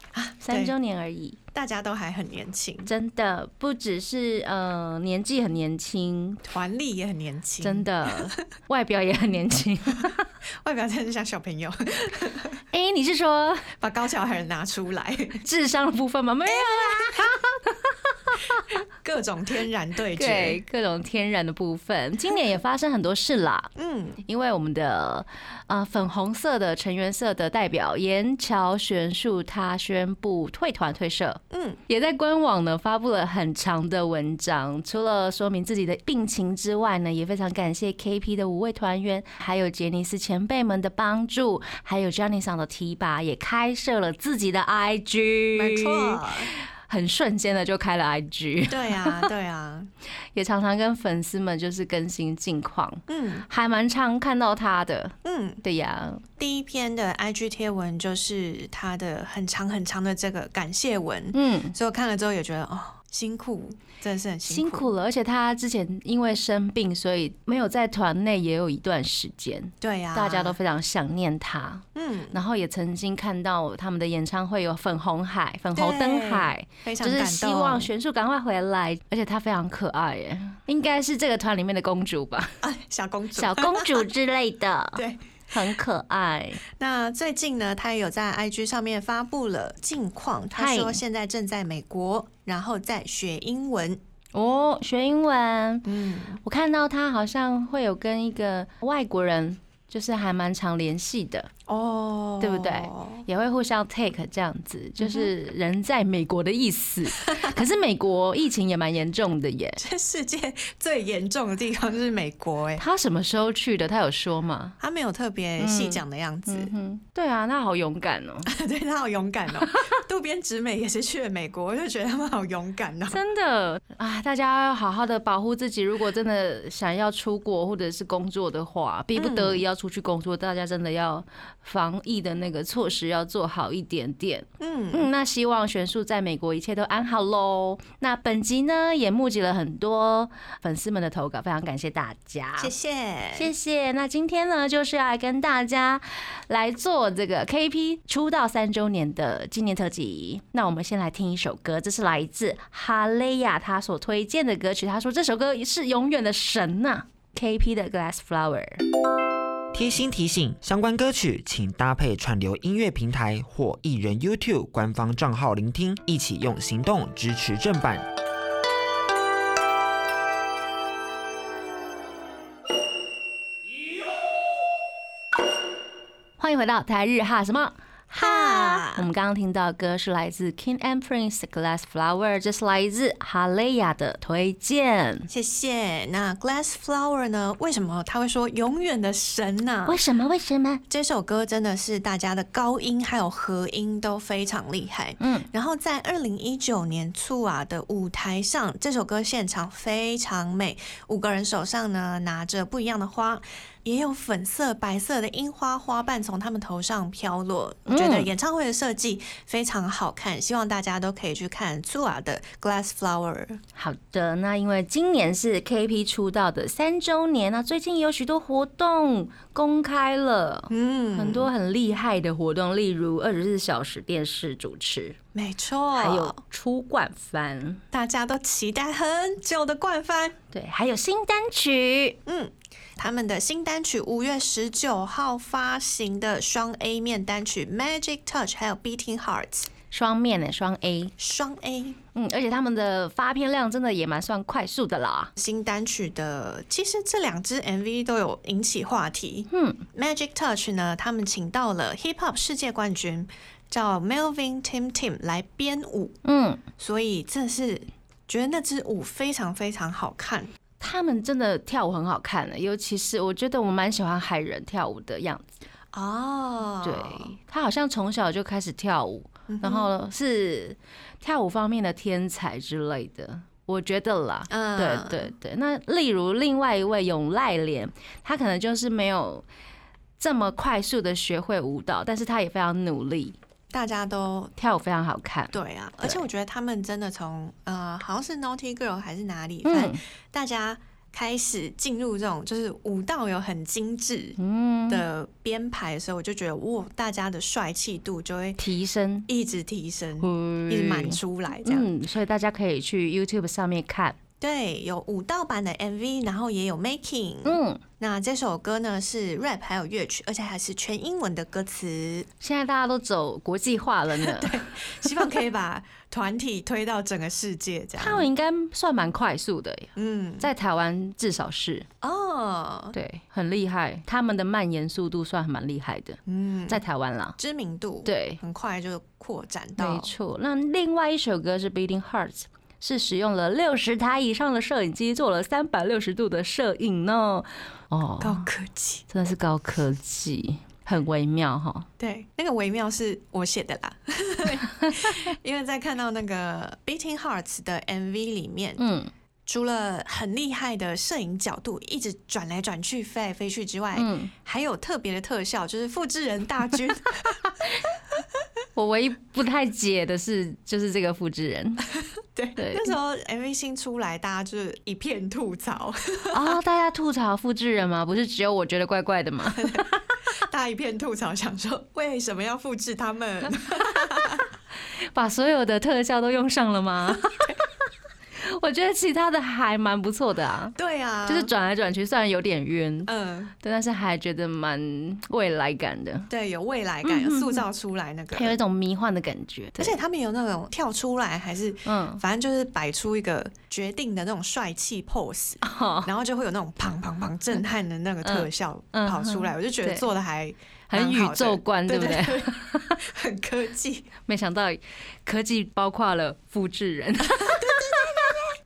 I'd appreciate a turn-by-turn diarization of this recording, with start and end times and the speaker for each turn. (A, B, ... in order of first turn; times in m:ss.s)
0:00.1-0:00.7 A
0:00.4-0:01.4 B
0:01.5-0:02.9 A
0:02.8-0:06.4 B
0:06.4-0:08.4 A
0:07.6-0:10.3 B
0:10.6-0:12.6 A
0:12.7-0:13.7 B
0:13.8-0:15.4 A
0:15.4-0:18.7 B
0:16.4-0:17.5 A
0:18.7-0:20.6 A
0:20.1-0:23.7 B
0:23.8-0:24.2 A
0:24.2-0:49.3 B
0:31.5-0:31.8 A
0:45.5-0:46.5 A
0:48.7-0:49.9 A
0:50.3-0:56.2 B
0:53.1-0:53.5 A
0:55.2-0:55.6 A
0:56.4-1:04.9 A
1:01.3-1:01.7 B
1:04.5-1:22.6 B
1:09.8-1:10.6 A
1:11.9-1:12.4 A
1:15.8-1:17.9 A
1:22.6-1:24.1 A
1:23.3-1:26.6 B
1:25.0-1:25.3 A
1:26.8-1:34.0 A
1:30.5-1:31.0 B
1:34.3-1:35.9 B
1:35.8-1:36.4 A
1:36.4-1:41.5 B
1:41.7-1:43.2 A
1:42.4-1:49.8 B
1:45.0-1:45.3 A
1:47.3-1:47.6 A
1:49.8-1:52.8 A
1:52.8-1:54.8 B
1:54.8-1:56.7 A
1:55.6-1:58.5 B
1:58.4-2:03.2 A
2:03.1-2:22.7 B
2:09.1-2:09.6 A
2:14.6-2:15.1 A
2:22.6-2:23.5 A
2:23.3-2:38.8 B
2:39.7-2:48.0 C
2:56.4-3:05.3 B
2:58.1-2:59.0 A
3:05.3-3:10.0 A
3:09.8-3:10.8 B
3:10.9-3:33.6 A
3:15.2-3:15.5 B
3:27.9-3:28.3 B
3:33.8-3:45.2 B
3:40.7-3:41.5 A
3:45.3-3:46.4 A
3:46.0-3:47.8 B
3:47.9-3:50.4 A
3:50.5-3:52.2 B
3:52.2-3:59.7 A
3:59.9-4:01.1 B
4:01.2-4:02.0 A
4:02.1-4:05.3 B
4:05.4-4:16.2 A
4:09.5-4:09.8 B
4:16.2-4:16.6 B
4:16.8-4:20.5 A
4:20.8-4:25.5 B
4:25.9-4:27.3 A
4:26.8-4:39.4 B
4:29.5-4:29.9 A
4:34.5-4:35.3 A
4:40.2-4:43.4 B
4:43.7-4:44.5 A
4:44.6-4:46.2 B
4:45.5-4:54.4 A
4:49.6-4:50.0 B
4:54.4-4:55.0 B
4:54.9-4:58.6 A
4:58.6-4:59.3 B
4:59.3-5:01.9 A
5:00.2-5:04.2 B
5:04.4-5:12.3 A
5:07.4-5:07.8 B
5:12.4-5:15.3 B
5:14.1-5:18.3 A
5:18.0-5:21.8 B
5:20.0-5:20.5 A
5:22.0-5:23.0 A
5:22.9-5:27.4 B
5:26.2-5:26.8 A
5:27.4-5:30.1 A
5:28.0-5:28.4 B
5:29.8-5:38.5 B
5:38.2-5:39.0 A
5:39.1-5:41.9 B
5:42.0-5:48.8 A
5:44.8-5:45.1 B
5:48.8-5:49.1 B
5:49.4-5:57.6 A
5:53.9-5:54.3 B
5:58.8-6:01.8 B
6:02.3-6:06.6 A
6:02.6-6:02.9 B
6:06.3-6:10.0 B
6:09.5-6:14.5 A
6:15.1-6:17.5 B
6:17.2-6:17.6 A
6:18.4-6:26.3 B
6:20.8-6:21.5 A
6:23.1-6:23.5 A
6:26.3-6:28.6 A
6:27.0-6:27.6 B
6:28.3-6:30.0 B
6:29.8-6:44.1 A
6:31.8-6:32.2 B
6:35.6-6:36.1 B
6:38.2-6:40.0 B
6:40.9-6:43.0 B
6:44.3-6:48.5 B
6:47.2-6:48.1 A